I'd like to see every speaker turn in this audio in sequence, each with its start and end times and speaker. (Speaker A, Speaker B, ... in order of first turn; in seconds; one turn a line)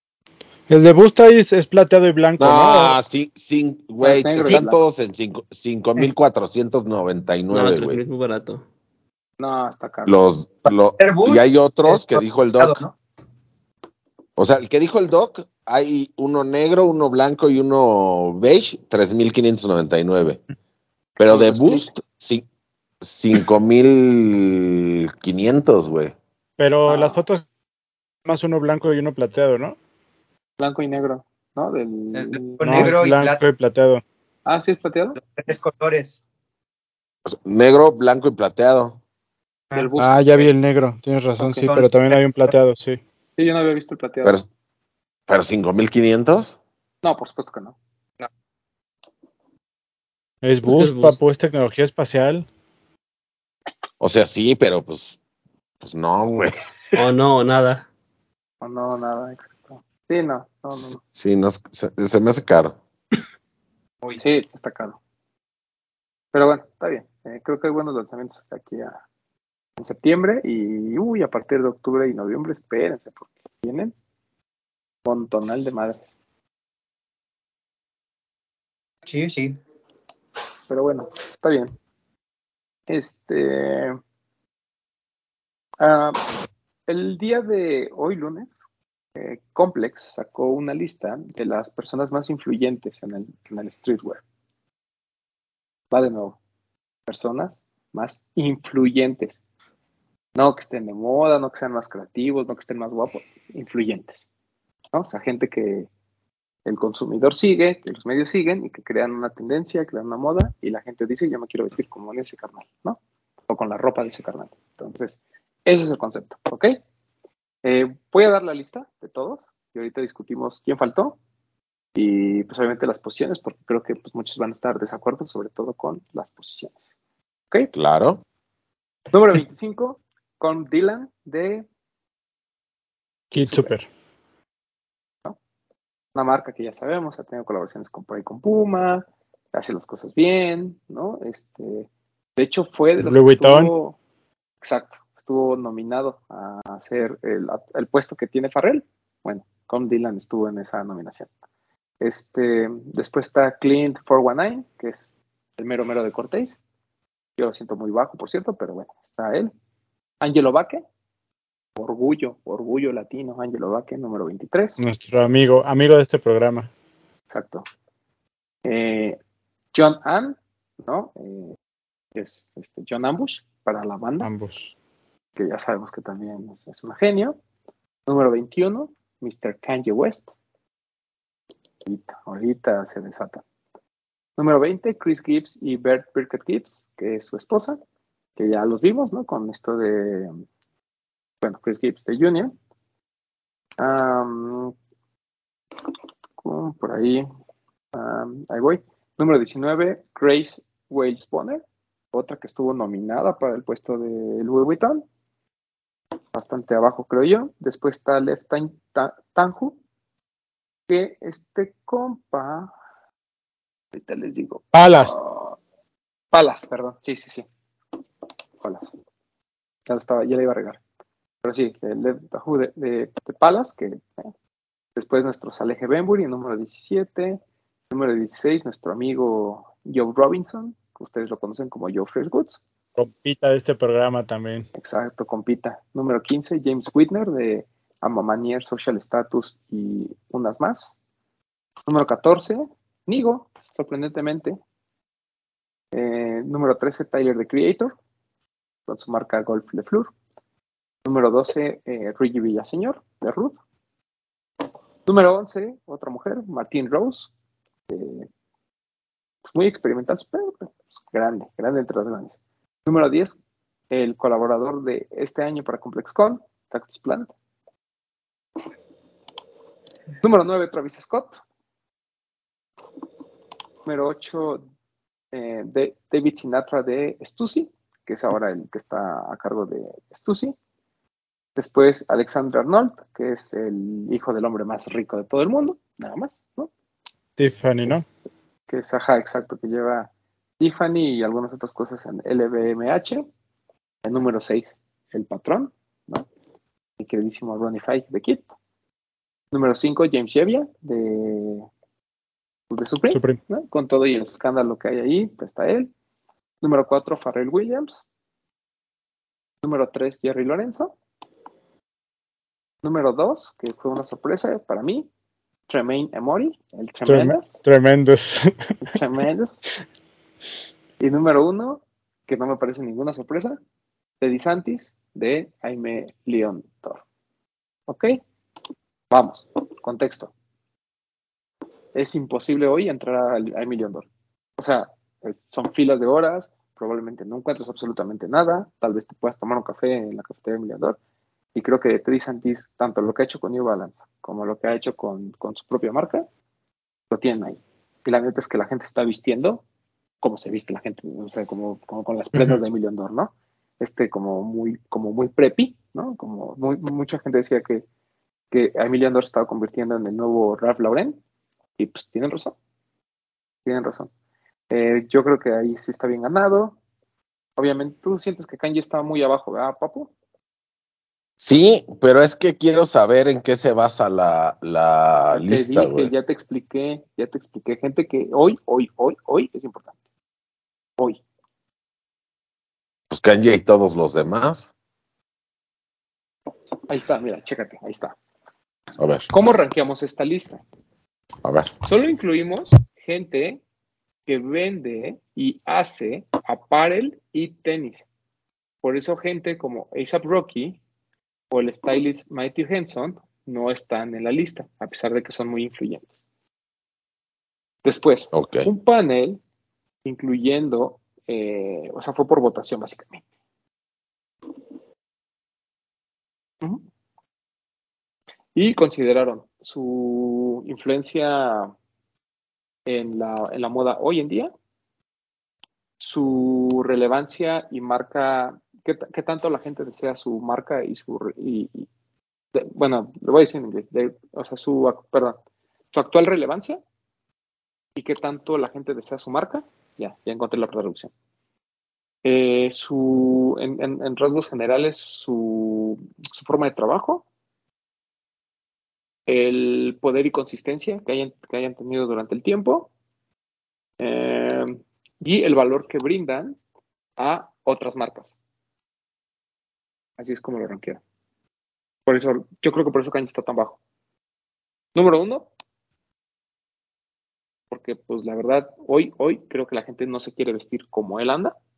Speaker A: 0.7-3.0
Speaker B: 2.4-8.0
Speaker C: 4.0-4.8
Speaker D: 7.5-8.6
Speaker C: 9.4-10.2
Speaker B: 10.1-12.8
Speaker E: 11.0-12.9
Speaker B: 14.4-20.4
Speaker B: 21.2-22.4
Speaker C: 21.2-21.9
Speaker B: 23.0-26.1
Speaker A: 26.6-27.4
Speaker C: 26.9-27.2
Speaker A: 28.2-29.8
Speaker C: 30.6-33.0
Speaker E: 32.1-33.4
Speaker A: 32.6-34.0
Speaker C: 34.5-35.2
Speaker E: 35.2-36.2
Speaker B: 37.2-39.0
Speaker C: 39.7-40.5
Speaker A: 40.0-43.0
Speaker C: 41.4-41.7
Speaker E: 41.7-42.2
Speaker C: 43.4-44.4
Speaker B: 45.3-46.5
Speaker C: 47.0-47.8
Speaker A: 50.4-52.5
Speaker D: 50.6-51.2
Speaker B: 54.0-55.2
Speaker B: 55.8-56.5
Speaker D: 56.9-57.9
Speaker C: 58.6-61.0
Speaker B: 61.1-62.8
Speaker C: 64.2-65.0
Speaker C: 66.3-69.0
Speaker C: 69.8-73.9
Speaker C: 75.0-76.0
Speaker E: 79.0-79.6
Speaker C: 80.7-81.7
Speaker C: 82.9-84.0
Speaker C: 85.8-86.2
Speaker C: 86.9-88.5
Speaker C: 89.2-94.2
Speaker C: 95.9-96.4
Speaker C: 97.1-99.4
Speaker C: 100.3-104.2
Speaker C: 104.9-105.9
Speaker C: 106.6-116.8
Speaker C: 117.6-121.2
Speaker C: 121.9-126.8
Speaker B: 127.7-128.2
Speaker C: 129.1-131.7
Speaker C: 133.3-133.7
Speaker A: 133.3-133.9
Speaker C: 136.1-144.0
Speaker A: 143.0-143.7
Speaker C: 144.6-151.3
Speaker C: 152.0-156.6
Speaker C: 157.4-159.5
Speaker C: 160.2-160.8
Speaker C: 161.8-164.8
Speaker A: 164.8-166.7
Speaker C: 167.3-167.6
Speaker C: 168.6-169.2
Speaker C: 169.7-171.6
Speaker C: 172.1-174.3
Speaker A: 174.2-174.7
Speaker C: 175.3-177.4
Speaker C: 178.1-180.3
Speaker C: 181.8-183.4
Speaker C: 184.4-187.8
Speaker C: 188.4-190.3
Speaker C: 191.4-192.5
Speaker C: 193.8-194.7
Speaker C: 196.4-197.3
Speaker C: 197.9-205.0
Speaker C: 206.3-209.8
Speaker C: 210.9-212.7
Speaker C: 213.9-215.6
Speaker A: 214.7-215.1
Speaker C: 216.3-217.4
Speaker C: 218.6-218.9
Speaker C: 219.9-220.8
Speaker C: 221.4-224.3
Speaker C: 224.9-232.6
Speaker A: 233.0-234.7
Speaker C: 234.8-240.9
Speaker C: 241.9-244.6
Speaker C: 245.9-247.9
Speaker C: 248.9-250.1
Speaker C: 251.0-253.6
Speaker C: 255.1-257.3
Speaker C: 257.9-258.3
Speaker C: 259.5-263.4
Speaker C: 263.9-267.3
Speaker C: 270.2-271.4
Speaker C: 273.8-274.6
Speaker C: 275.3-280.5
Speaker C: 281.6-286.7
Speaker A: 287.4-288.1
Speaker C: 288.7-293.2
Speaker C: 294.0-296.2
Speaker C: 297.0-298.5
Speaker C: 299.5-301.7
Speaker C: 302.7-305.9
Speaker A: 303.1-303.4
Speaker C: 306.6-308.0
Speaker C: 309.6-310.9
Speaker C: 312.8-315.1
Speaker C: 315.7-317.6
Speaker A: 317.1-318.5
Speaker C: 318.8-319.7
Speaker C: 321.0-323.6
Speaker C: 324.2-327.0
Speaker C: 327.9-328.2
Speaker C: 329.1-330.3
Speaker C: 331.9-334.1
Speaker C: 334.6-341.0
Speaker C: 341.5-346.2
Speaker C: 347.1-349.6
Speaker C: 350.2-357.8
Speaker C: 358.5-361.2
Speaker C: 361.8-362.5
Speaker C: 363.6-364.1
Speaker C: 364.7-366.8
Speaker C: 367.6-370.1
Speaker B: 371.4-376.1
Speaker C: 375.3-379.9
Speaker B: 383.1-384.7
Speaker C: 386.9-388.1
Speaker B: 389.0-389.3
Speaker C: 389.3-390.6
Speaker B: 391.4-391.7
Speaker C: 391.9-393.6
Speaker C: 394.2-398.0
Speaker C: 398.8-400.8
Speaker C: 401.5-406.1
Speaker C: 407.8-409.4
Speaker B: 408.3-408.7
Speaker C: 410.0-413.2
Speaker C: 418.5-421.7
Speaker C: 422.9-424.5
Speaker C: 426.0-431.9
Speaker C: 432.5-435.4
Speaker C: 435.9-436.8
Speaker C: 437.9-441.1
Speaker C: 442.2-447.2
Speaker C: 449.3-452.9
Speaker C: 454.0-456.6
Speaker C: 457.2-458.4
Speaker C: 460.2-461.0
Speaker C: 462.1-463.8
Speaker C: 464.9-465.5
Speaker C: 467.7-471.5